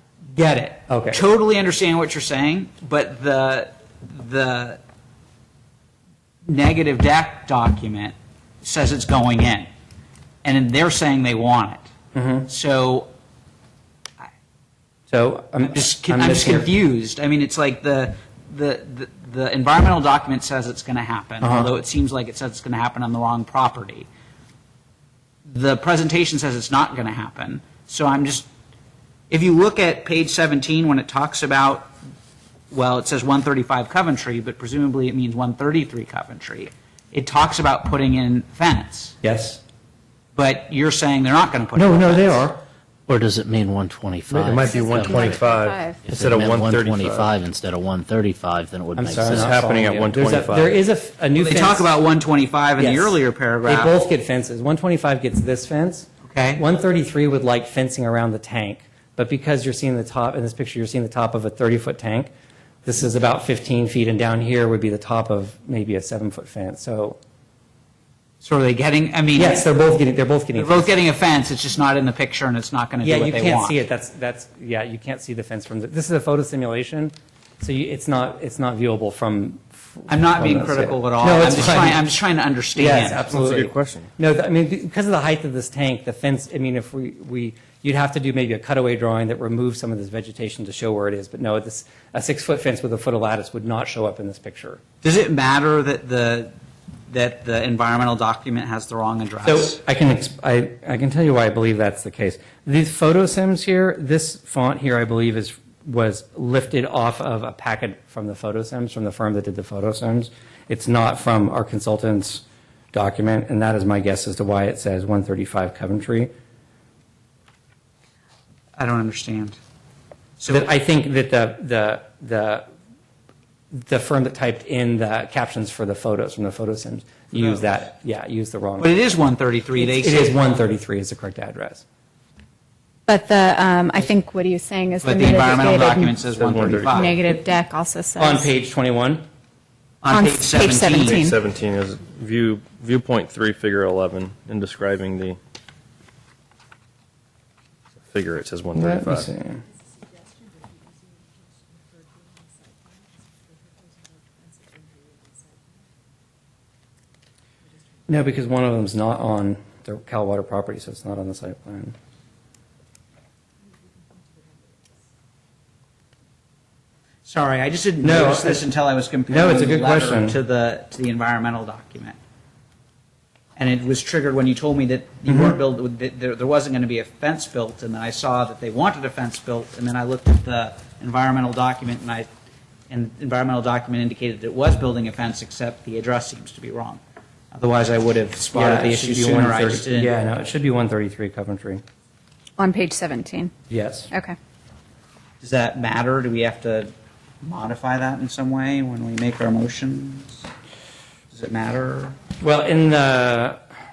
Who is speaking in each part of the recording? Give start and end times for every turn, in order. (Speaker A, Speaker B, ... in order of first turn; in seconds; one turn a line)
Speaker A: 0.3-4.8
Speaker B: 0.9-1.2
Speaker A: 6.5-9.7
Speaker A: 10.4-11.9
Speaker B: 12.1-12.5
Speaker A: 12.4-13.1
Speaker B: 15.1-16.7
Speaker A: 15.6-24.1
Speaker B: 21.4-21.7
Speaker A: 25.4-28.5
Speaker A: 29.3-31.9
Speaker A: 32.7-39.1
Speaker B: 39.2-39.6
Speaker A: 40.4-42.5
Speaker B: 41.8-42.6
Speaker C: 43.1-45.4
Speaker D: 44.3-47.3
Speaker E: 44.6-46.0
Speaker C: 46.0-49.5
Speaker B: 49.0-51.9
Speaker D: 49.4-50.8
Speaker A: 51.3-53.9
Speaker B: 52.8-62.3
Speaker A: 56.2-56.6
Speaker B: 62.8-67.2
Speaker A: 68.4-69.7
Speaker B: 69.3-70.9
Speaker A: 70.5-73.8
Speaker B: 73.0-82.0
Speaker A: 80.1-83.7
Speaker B: 82.8-94.8
Speaker D: 83.3-84.1
Speaker A: 95.0-96.5
Speaker A: 97.1-99.8
Speaker B: 99.4-116.3
Speaker A: 118.8-119.6
Speaker A: 120.4-120.7
Speaker B: 120.5-122.7
Speaker B: 123.7-128.9
Speaker A: 127.3-127.9
Speaker A: 128.8-130.3
Speaker B: 129.8-131.8
Speaker E: 133.1-136.2
Speaker A: 135.0-137.2
Speaker D: 136.2-137.2
Speaker E: 136.8-138.5
Speaker B: 138.2-139.2
Speaker A: 140.0-141.2
Speaker E: 140.1-141.3
Speaker D: 140.9-145.4
Speaker D: 148.1-149.3
Speaker B: 148.8-149.6
Speaker B: 158.1-161.9
Speaker A: 167.2-172.2
Speaker B: 168.0-168.7
Speaker B: 169.3-170.3
Speaker A: 173.6-182.3
Speaker B: 175.3-175.6
Speaker A: 182.9-187.0
Speaker A: 187.5-190.1
Speaker B: 188.5-191.8
Speaker E: 192.6-193.5
Speaker B: 193.7-194.1
Speaker E: 194.1-194.3
Speaker A: 195.4-200.5
Speaker A: 201.3-202.2
Speaker B: 202.4-203.6